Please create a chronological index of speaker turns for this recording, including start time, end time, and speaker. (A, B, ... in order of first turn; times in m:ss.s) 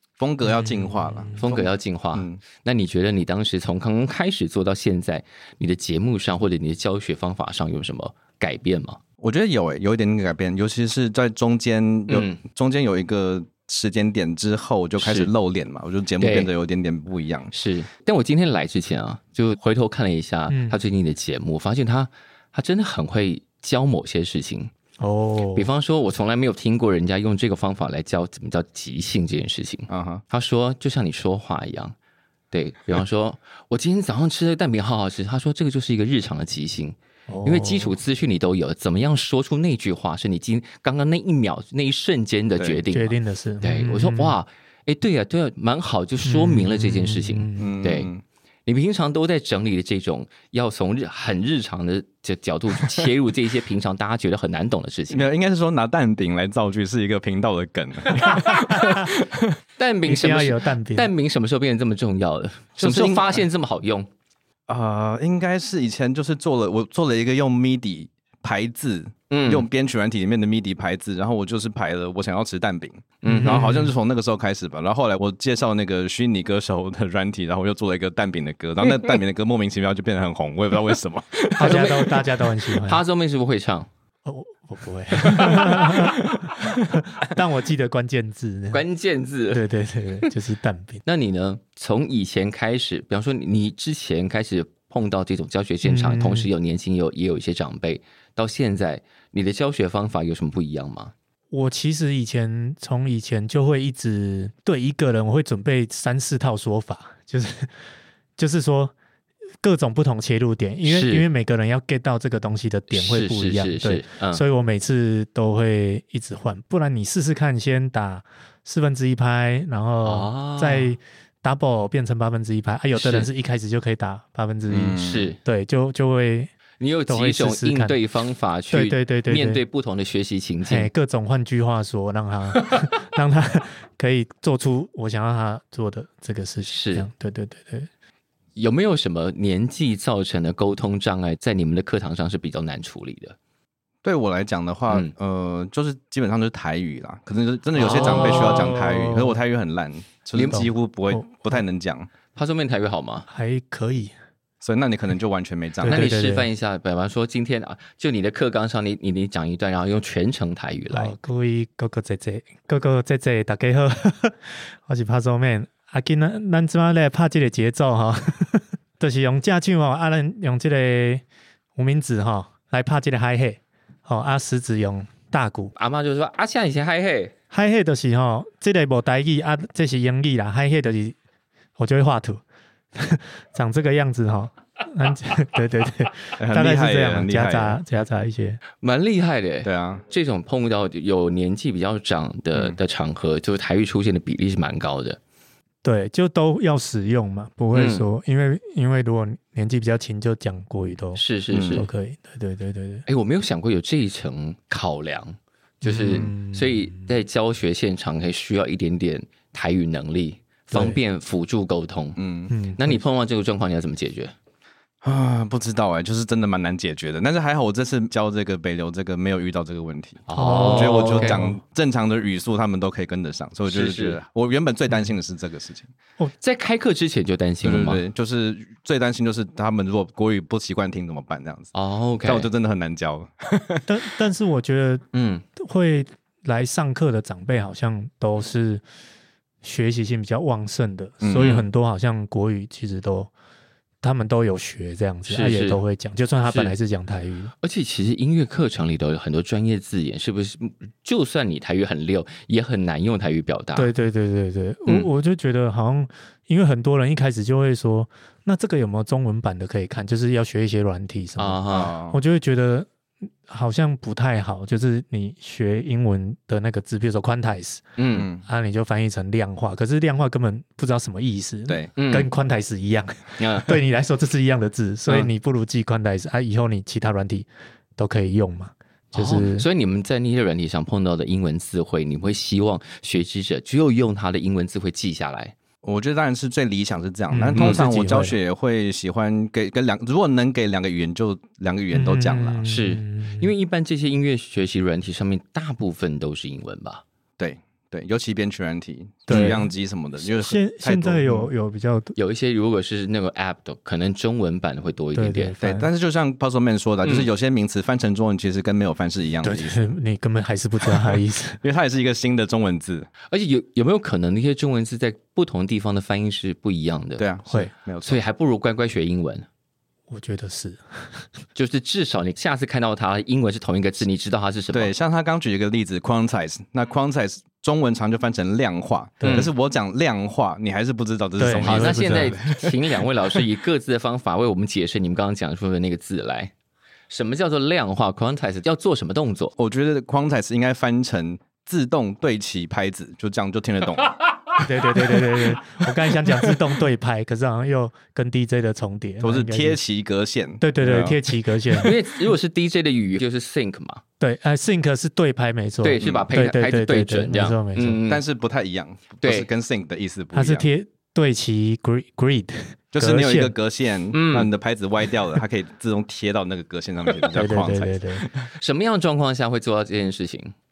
0:00.2-0:02.4 A
0:00.4-0:01.4 B
0:01.4-0:09.0 C
0:09.2-0:17.5 A
0:12.1-0:12.4 C
0:15.0-0:15.3 C
0:16.2-0:16.5 C
0:17.5-0:24.7 C
0:20.5-0:20.8 B
0:25.0-0:25.7 B
0:25.6-0:32.0 C
0:29.9-0:30.2 A
0:32.5-0:48.1 C
0:37.3-0:38.0 B
0:42.6-0:42.8 A
0:42.9-0:44.4 B
0:46.2-0:47.8 B
0:47.6-0:48.2 A
0:48.7-0:55.3 C
0:55.1-0:59.6 A
0:58.8-0:59.0 B
0:59.8-1:04.1 C
1:00.0-1:01.1 B
1:02.8-1:03.4 A
1:04.7-1:21.9 A
1:09.3-1:09.7 C
1:13.2-1:13.7 C
1:13.2-1:13.9 B
1:21.6-1:23.0 B
1:21.6-1:22.2 C
1:22.8-1:23.9 C
1:24.2-1:28.8 B
1:25.2-1:26.8 A
1:28.7-1:29.6 C
1:29.5-1:31.0 B
1:31.0-1:41.1 C
1:35.8-1:36.5 B
1:41.5-1:47.7 B
1:48.4-1:48.9 B
1:49.6-2:06.5 B
1:50.8-1:51.3 C
1:52.9-1:54.4 C
2:00.0-2:00.9 C
2:03.0-2:03.3 C
2:04.7-2:05.3 A
2:05.0-2:05.4 C
2:06.8-2:10.9 C
2:07.1-2:08.0 B
2:08.7-2:09.6 B
2:10.7-2:17.9 B
2:16.6-2:17.1 C
2:18.6-2:23.4 C
2:24.0-2:32.1 A
2:27.8-2:28.8 C
2:27.8-2:29.4 B
2:30.4-2:30.6 C
2:30.4-2:31.3 B
2:32.4-2:33.3 C
2:33.3-2:34.1 B
2:34.6-2:36.1 A
2:35.8-2:36.5 B
2:35.8-2:41.1 C
2:40.9-2:51.2 B
2:51.8-2:55.7 B
2:55.8-2:57.3 C
2:57.5-3:01.2 B
3:01.8-3:02.4 B
3:03.0-3:08.6 B
3:06.4-3:07.8 A
3:08.8-3:15.2 C
3:09.6-3:10.0 A
3:15.8-3:23.1 B
3:17.7-3:18.0 C
3:21.2-3:21.9 C
3:21.5-3:21.9 A
3:23.1-3:32.2 C
3:25.8-3:27.2 B
3:30.7-3:31.0 B
3:32.2-3:32.5 A
3:32.5-3:33.0 B
3:32.8-3:34.3 C
3:35.0-3:45.9 A
3:40.3-3:41.5 C
3:40.4-3:41.6 B
3:43.7-3:44.2 C
3:46.4-3:48.0 C
3:47.6-3:51.7 A
3:51.7-3:52.5 C
3:52.2-3:53.9 A
3:53.9-3:55.0 B
3:55.1-3:55.4 C
3:55.6-3:58.8 B
3:59.6-4:03.3 B
4:01.2-4:01.6 A
4:01.4-4:01.6 C
4:04.0-4:07.5 B
4:05.3-4:05.8 C
4:06.5-4:06.8 C
4:07.6-4:13.9 C
4:13.8-4:22.9 B
4:21.4-4:21.9 C
4:21.7-4:22.2 A
4:23.5-4:27.9 B
4:28.0-4:28.3 C
4:28.2-4:28.4 A
4:28.4-4:39.7 B
4:32.0-4:32.3 C
4:33.4-4:33.8 C
4:39.2-4:45.6 C
4:45.8-4:52.6 A
4:47.3-4:48.4 B
4:47.6-4:47.8 C
4:51.9-4:53.5 B
4:52.7-4:57.0 C
4:57.4-5:01.5 A
4:59.3-4:59.7 B
5:00.2-5:02.2 B
5:02.2-5:05.6 C
5:05.2-5:05.9 B
5:05.6-5:09.9 A
5:09.4-5:11.6 B
5:10.9-5:13.1 A
5:13.3-5:17.3 C
5:17.2-5:18.2 A
5:18.0-5:19.5 C
5:20.1-5:21.2 B
5:21.6-5:24.9 C
5:24.7-5:32.8 A
5:29.2-5:29.5 B
5:29.2-5:29.5 C
5:31.4-5:32.4 B
5:31.6-5:36.5 C
5:37.1-5:39.5 C
5:39.6-5:44.2 A
5:44.6-5:49.8 B
5:49.2-5:51.4 A
5:50.6-5:52.0 B
5:51.8-5:54.0 C
5:54.2-5:58.0 B
5:55.8-5:58.2 C
5:56.0-5:56.3 A
5:58.1-6:00.7 A
5:59.2-5:59.5 C
6:00.3-6:03.5 B
6:02.9-6:08.5 A
6:04.1-6:04.5 C
6:07.3-6:08.3 B
6:08.6-6:10.5 C